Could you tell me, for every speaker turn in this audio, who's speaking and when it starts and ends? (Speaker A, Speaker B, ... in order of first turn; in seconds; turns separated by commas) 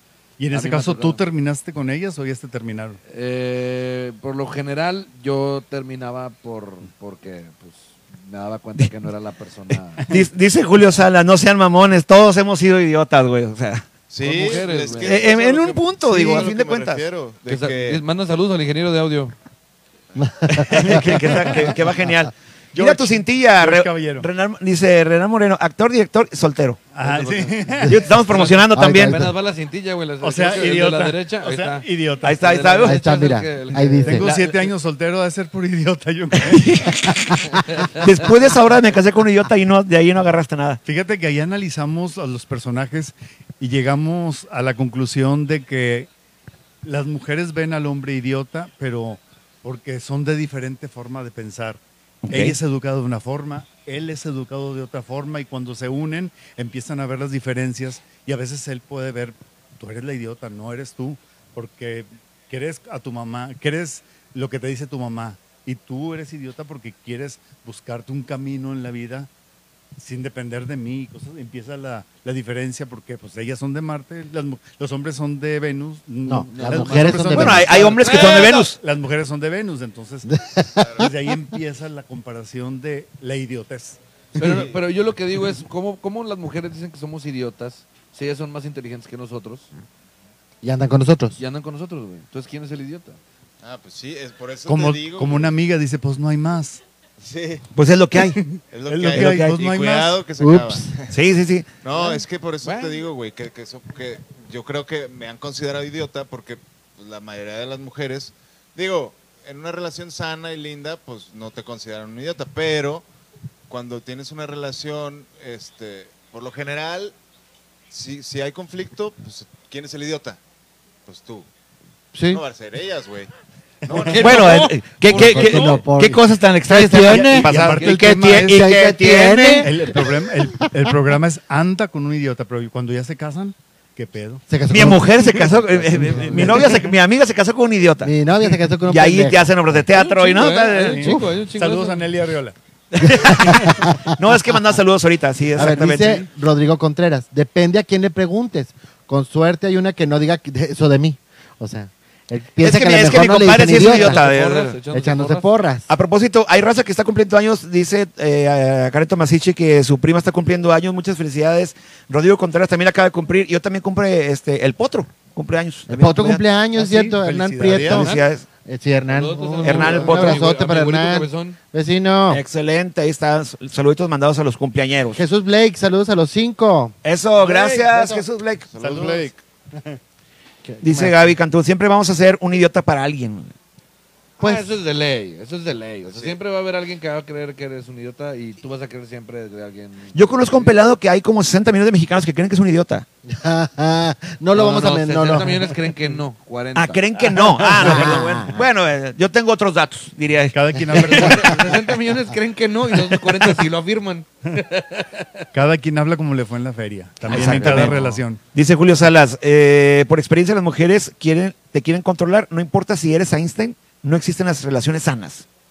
Speaker A: 0.4-3.0, Speaker B: 0.5-1.2, Speaker B: 3.1-10.1, Speaker C: 10.1-13.8, Speaker D: 14.1-18.0, Speaker B: 14.2-15.2, Speaker C: 15.0-17.0, Speaker B: 17.4-19.3, Speaker E: 20.2-21.7, Speaker C: 20.5-26.8, Speaker A: 22.7-24.3, Speaker A: 26.9-28.0, Speaker B: 27.0-34.7, Speaker C: 27.9-29.2, Speaker E: 28.6-29.3, Speaker A: 30.2-32.4, Speaker C: 32.2-33.0, Speaker E: 32.8-34.3, Speaker A: 34.0-37.2, Speaker C: 36.3-40.8, Speaker B: 37.7-38.0, Speaker A: 40.8-46.1, Speaker A: 46.8-69.3, Speaker C: 52.2-52.6, Speaker A: 70.0-80.3, Speaker E: 76.2-78.0, Speaker B: 76.5-78.7, Speaker C: 77.3-78.8, Speaker E: 80.3-80.9, Speaker D: 80.8-81.1, Speaker A: 81.0-84.0, Speaker D: 84.3-84.8, Speaker B: 84.4-89.7, Speaker E: 90.6-91.4, Speaker B: 91.4-93.2, Speaker D: 93.6-95.5, Speaker A: 94.7-96.8, Speaker D: 97.2-97.6, Speaker C: 97.7-98.4, Speaker A: 98.1-100.2, Speaker D: 98.7-101.2, Speaker C: 99.1-99.6, Speaker E: 100.4-100.9, Speaker C: 101.1-101.7, Speaker D: 101.8-113.0, Speaker B: 102.6-103.0, Speaker D: 113.7-117.1, Speaker D: 117.9-120.4, Speaker D: 121.0-121.5, Speaker E: 122.1-122.4, Speaker D: 122.3-123.3, Speaker A: 123.9-124.5, Speaker D: 123.9-124.6, Speaker B: 123.9-125.7, Speaker C: 124.1-129.7, Speaker E: 125.0-127.7, Speaker A: 127.1-128.8, Speaker E: 128.4-130.7, Speaker A: 129.6-136.9, Speaker E: 134.5-136.9, Speaker C: 134.7-138.1, Speaker E: 138.0-139.8, Speaker C: 138.8-141.1, Speaker B: 139.9-142.1, Speaker A: 140.8-142.5, Speaker C: 142.9-146.3, Speaker E: 143.0-144.1, Speaker A: 143.2-143.9, Speaker E: 145.6-154.2, Speaker C: 152.6-154.8, Speaker B: 153.7-155.5, Speaker E: 154.9-155.9, Speaker C: 155.9-166.4, Speaker E: 165.9-172.4, Speaker A: 166.7-168.1, Speaker C: 167.8-168.4, Speaker B: 168.0-168.3, Speaker B: 169.1-171.6, Speaker C: 169.6-170.5, Speaker C: 172.3-175.2, Speaker E: 175.2-176.9, Speaker C: 177.0-178.7, Speaker A: 177.5-177.9, Speaker D: 178.7-179.4, Speaker A: 178.8-180.0, Speaker E: 180.6-181.3, Speaker C: 180.8-183.5, Speaker B: 184.4-190.8, Speaker E: 184.4-184.7, Speaker D: 186.1-186.4, Speaker C: 190.1-193.0, Speaker E: 193.2-195.8, Speaker B: 194.5-197.0, Speaker C: 196.7-201.4, Speaker A: 197.3-198.2, Speaker E: 197.7-198.7, Speaker A: 200.5-201.7, Speaker B: 201.0-205.4, Speaker A: 205.5-208.4, Speaker E: 207.3-208.0, Speaker C: 207.3-215.4